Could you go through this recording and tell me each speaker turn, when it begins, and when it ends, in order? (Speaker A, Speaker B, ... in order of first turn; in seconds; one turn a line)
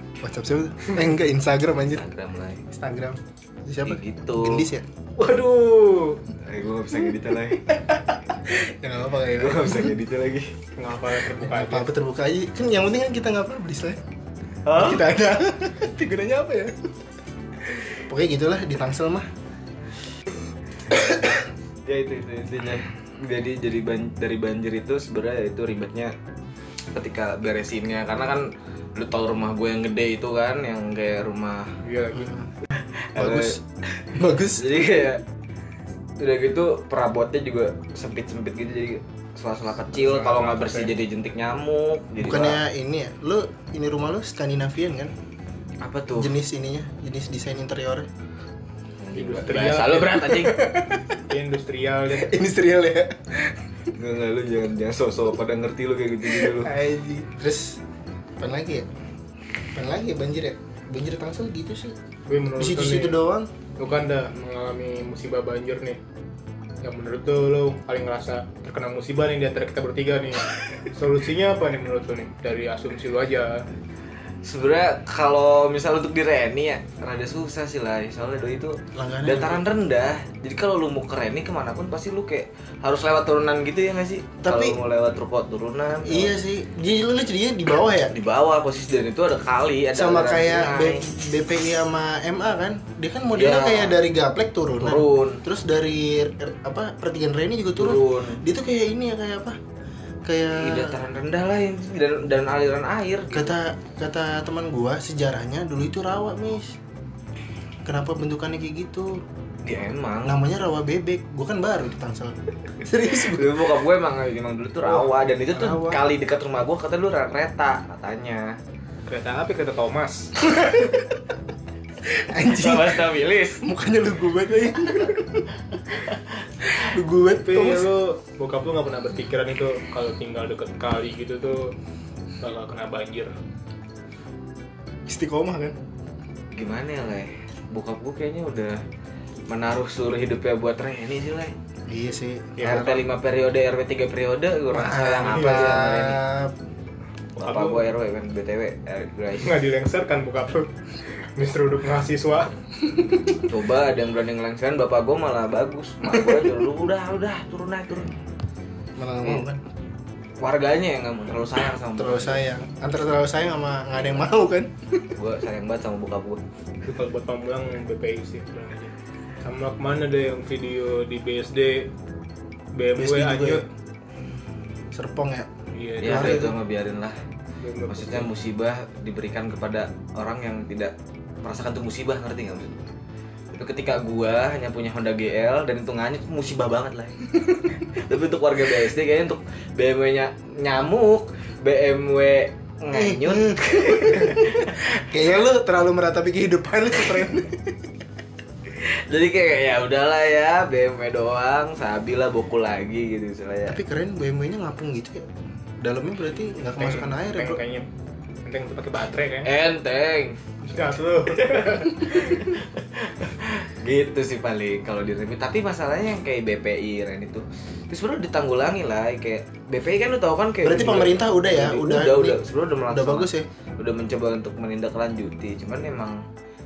Speaker A: 0.2-2.1
Speaker B: 1.9-2.6
Speaker A: 2.7-4.9
Speaker B: 3.9-4.7
Speaker C: 5.2-6.2
Speaker B: 6.3-8.2
Speaker A: 8.5-9.9
Speaker B: 9.3-10.5
Speaker C: 10.8-11.9
Speaker A: 11.4-14.0
Speaker B: 14.7-15.0
Speaker A: 14.7-16.8
Speaker A: 17.9-19.3
Speaker A: 20.9-21.4
Speaker B: 21.9-26.1
Speaker B: 26.9-31.8
Speaker C: 31.8-32.4
Speaker B: 32.8-35.2
Speaker A: 33.2-33.6
Speaker A: 34.1-34.7
Speaker B: 36.2-42.6
Speaker C: 39.9-40.9
Speaker A: 42.2-45.1
Speaker B: 45.8-46.4
Speaker A: 46.2-48.1
Speaker B: 49.0-50.6
Speaker C: 49.1-50.5
Speaker A: 50.4-51.2
Speaker C: 51.3-52.3
Speaker A: 52.1-53.6
Speaker B: 54.0-56.7
Speaker A: 56.2-57.8
Speaker A: 58.4-58.9
Speaker A: 59.7-62.0
Speaker C: 62.3-63.2
Speaker A: 62.6-63.5
Speaker C: 63.8-66.0
Speaker C: 66.8-73.7
Speaker B: 74.4-86.3
Speaker A: 79.0-79.7
Speaker A: 84.4-84.8
Speaker A: 86.0-88.1
Speaker B: 88.1-91.1
Speaker A: 89.9-99.6
Speaker B: 93.3-94.0
Speaker B: 94.8-95.4
Speaker B: 97.8-98.4
Speaker A: 100.3-101.0
Speaker B: 100.5-103.6
Speaker A: 103.3-106.8
Speaker A: 107.8-109.2
Speaker B: 109.6-110.4
Speaker A: 110.2-113.6
Speaker B: 113.1-118.6
Speaker A: 114.9-116.0
Speaker C: 119.1-120.3
Speaker A: 122.1-123.1
Speaker B: 122.5-123.6
Speaker A: 123.6-125.5
Speaker A: 126.8-127.9
Speaker C: 127.4-131.8
Speaker C: 132.4-133.3
Speaker A: 135.1-135.8
Speaker B: 136.5-138.8
Speaker B: 139.5-141.5
Speaker A: 141.9-142.9
Speaker C: 142.6-143.0
Speaker B: 142.6-146.2
Speaker A: 144.7-146.5
Speaker C: 145.3-145.8
Speaker B: 147.4-149.6
Speaker C: 147.4-147.8
Speaker C: 149.4-150.7
Speaker C: 151.4-152.5
Speaker B: 153.3-158.1
Speaker A: 159.0-159.6
Speaker B: 160.4-162.4
Speaker A: 162.0-164.7
Speaker B: 165.2-166.4
Speaker C: 166.8-171.9
Speaker C: 172.7-173.7
Speaker A: 173.0-173.6
Speaker A: 174.9-175.5
Speaker C: 175.7-176.5
Speaker B: 176.0-177.2
Speaker A: 176.0-176.6
Speaker C: 177.6-178.3
Speaker B: 177.9-182.9
Speaker B: 183.5-187.3
Speaker B: 187.8-194.8
Speaker A: 192.9-197.8
Speaker B: 198.7-203.8
Speaker A: 203.7-205.3
Speaker A: 205.8-207.6
Speaker C: 206.8-207.9
Speaker C: 208.4-209.5
Speaker B: 209.4-210.4
Speaker C: 210.6-212.5
Speaker B: 211.3-226.2
Speaker A: 220.6-223.5